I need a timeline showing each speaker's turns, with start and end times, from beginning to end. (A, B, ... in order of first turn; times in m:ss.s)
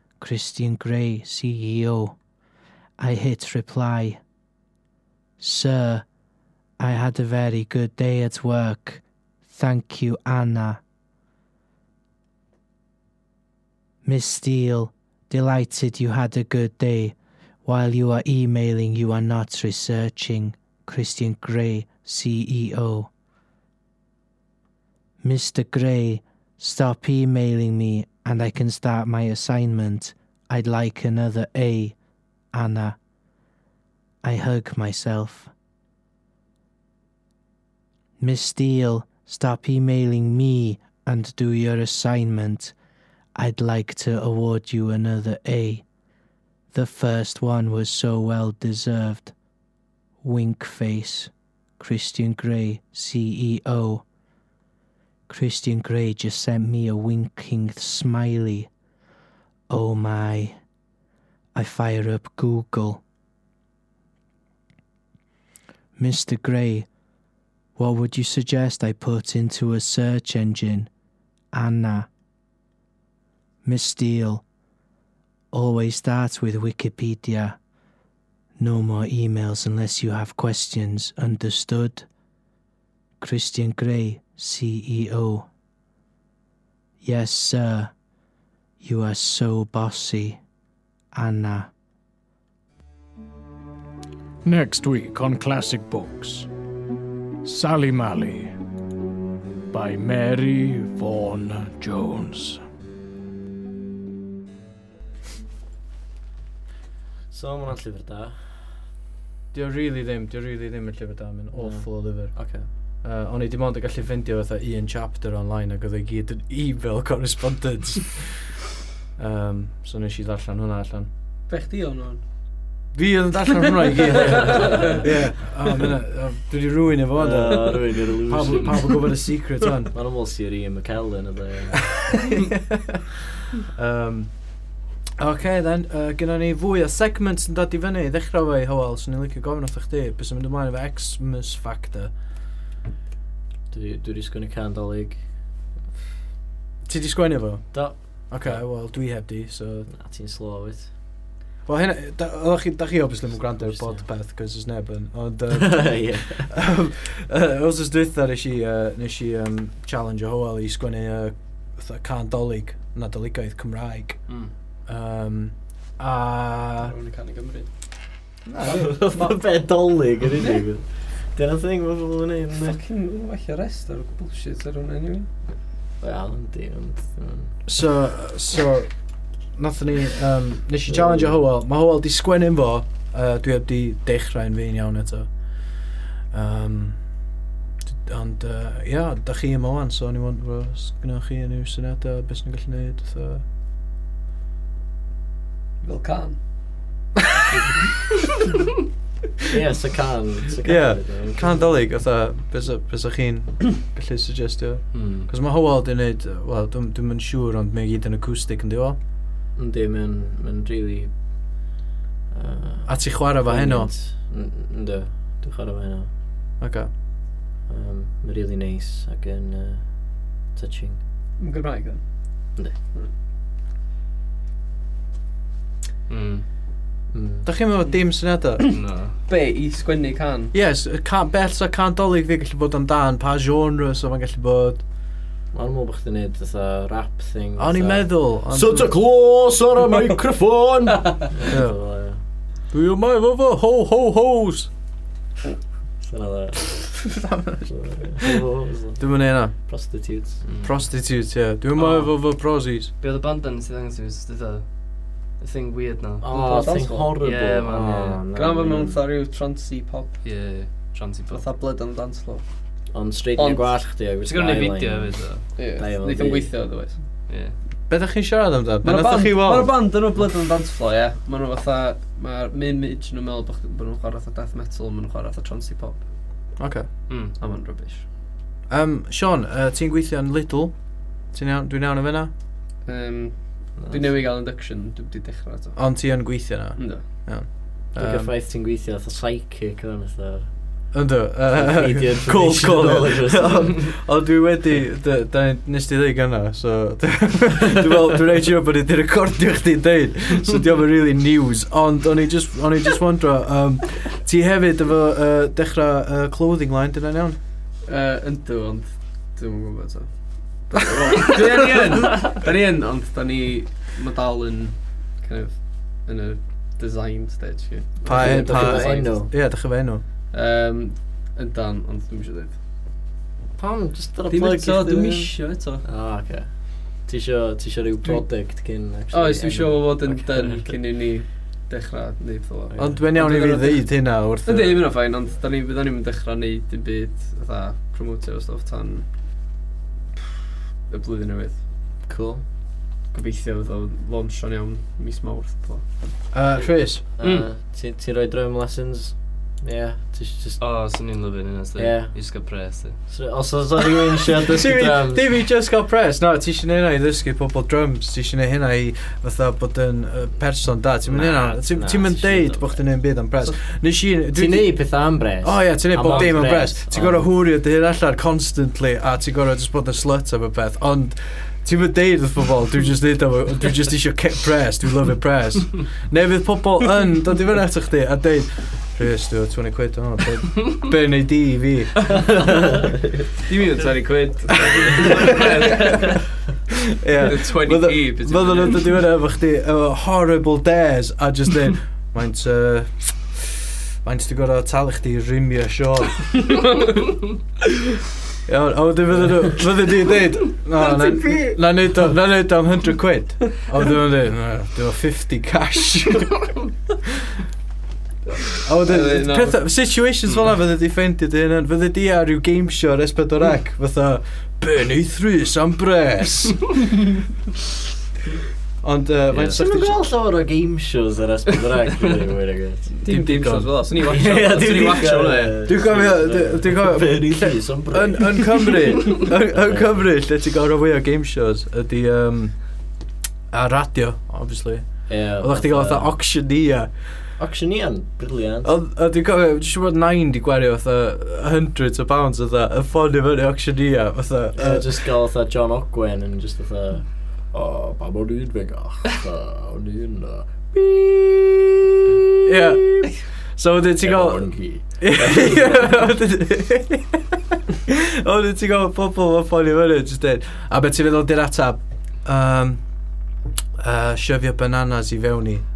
0:00.2-0:02.2 A
0:03.0-0:04.2 A
0:05.4-0:06.0 A
0:06.8-0:10.8 A
0:14.0-0:23.1 A
0:25.2-0:32.0 A
0:32.5-0:33.0 A
0:34.2-0:35.5 A
0:38.2-0:42.7 A
0:43.4-0:45.8 A
0:46.7-0:49.3 A
0:50.2-0:54.0 A
0:55.3-0:58.7 A
0:59.7-1:00.6 A
1:01.6-1:03.0 A
1:06.0-1:06.9 A
1:07.8-1:10.9 A
1:11.5-1:12.1 A
1:13.6-1:14.4 A
1:15.5-1:17.6 A
1:18.6-1:22.1 A
1:23.2-1:25.5 A
1:27.0-1:27.9 A
1:28.8-1:30.4 A
1:31.1-1:31.7 A
1:34.4-1:36.5 B
1:37.4-1:38.6 B
1:39.7-1:42.6 B
1:47.3-1:48.4 C
1:49.5-1:52.4 D
1:51.5-1:52.7 C
1:53.0-1:58.6 D
1:59.2-2:01.1 D
2:01.5-2:02.2 E
2:03.0-2:09.9 D
2:03.6-2:05.0 E
2:04.2-2:05.0 C
2:07.2-2:08.9 C
2:09.9-2:11.8 C
2:11.9-2:13.0 D
2:13.7-2:14.3 D
2:15.2-2:22.1 D
2:23.7-2:25.2 C
2:26.9-2:29.9 D
2:27.7-2:28.6 C
2:29.9-2:30.9 C
2:31.7-2:44.2 D
2:33.6-2:34.0 C
2:35.5-2:36.5 C
2:44.9-2:46.9 D
2:46.8-2:47.7 E
2:48.5-2:49.0 D
2:48.6-2:52.8 C
2:48.7-2:49.4 E
2:52.6-2:55.3 E
2:56.0-2:57.6 C
2:57.7-2:58.9 D
2:59.6-3:05.3 D
3:00.9-3:01.4 C
3:06.3-3:07.0 D
3:08.1-3:13.4 D
3:15.8-3:16.4 E
3:19.5-3:21.7 C
3:20.6-3:29.0 D
3:24.9-3:25.3 F
3:29.6-3:31.1 C
3:32.3-3:36.1 C
3:32.9-3:33.9 D
3:36.6-3:36.9 D
3:37.7-3:39.9 C
3:40.5-3:41.0 C
3:41.4-3:42.0 E
3:46.1-3:46.4 F
3:47.1-3:47.5 C
3:47.4-3:48.6 D
3:48.6-3:50.5 E
3:48.7-3:49.2 F
3:50.5-3:54.8 D
3:55.5-4:02.2 C
3:57.6-3:59.0 D
4:01.5-4:01.8 D
4:02.7-4:04.7 D
4:06.0-4:06.9 C
4:07.0-4:07.7 D
4:07.7-4:10.4 C
4:09.0-4:09.6 D
4:10.4-4:10.7 F
4:10.6-4:12.9 D
4:11.8-4:12.1 F
4:13.0-4:18.2 F
4:16.2-4:19.0 C
4:16.3-4:17.1 E
4:18.3-4:20.2 E
4:20.2-4:21.4 F
4:21.3-4:22.4 E
4:22.9-4:25.2 C
4:23.4-4:23.8 E
4:24.2-4:25.5 F
4:25.6-4:27.0 E
4:25.8-4:26.5 C
4:27.3-4:27.6 F
4:27.9-4:29.8 D
4:28.8-4:36.0 E
4:36.6-4:36.9 D
4:37.1-4:37.4 F
4:37.4-4:38.1 E
4:38.7-4:40.8 D
4:41.3-4:42.3 D
4:42.8-4:45.8 E
4:43.8-4:44.2 C
4:45.8-4:48.3 D
4:46.8-4:47.2 E
4:47.9-4:50.5 C
4:50.9-5:07.4 D
4:51.5-4:53.8 C
5:07.8-5:19.3 E
5:11.0-5:11.4 D
5:18.0-5:20.0 D
5:18.1-5:19.3 C
5:20.3-5:22.6 E
5:23.6-5:26.5 C
5:24.3-5:25.8 E
5:27.0-5:30.8 C
5:29.1-5:39.1 E
5:32.8-5:34.8 D
5:40.9-5:41.6 E
5:42.1-5:42.4 C
5:43.1-5:45.8 E
5:46.3-5:47.0 D
5:47.2-5:50.6 C
5:50.6-5:53.0 F
5:51.8-5:52.1 C
5:53.1-5:55.2 C
5:54.4-6:04.8 D
6:01.1-6:02.8 C
6:04.3-6:07.3 C
6:05.4-6:22.2 D
6:23.5-6:26.0 E
6:23.5-6:26.1 F
6:25.0-6:25.8 D
6:27.0-6:33.5 D
6:27.2-6:28.9 E
6:34.0-6:36.7 D
6:38.5-6:46.6 D
6:41.0-6:41.5 E
6:48.5-6:57.2 D
6:48.8-6:49.6 E
6:58.8-7:00.0 D
6:59.4-7:02.9 C
7:03.0-7:05.6 E
7:03.1-7:03.8 D
7:04.0-7:09.9 C
7:05.7-7:12.6 D
7:13.5-7:16.9 D
7:15.1-7:16.1 C
7:17.4-7:18.7 C
7:18.6-7:25.1 D
7:24.6-7:33.1 C
7:32.5-7:37.2 D
7:34.0-7:35.9 C
7:37.9-7:42.8 D
7:43.8-7:45.6 D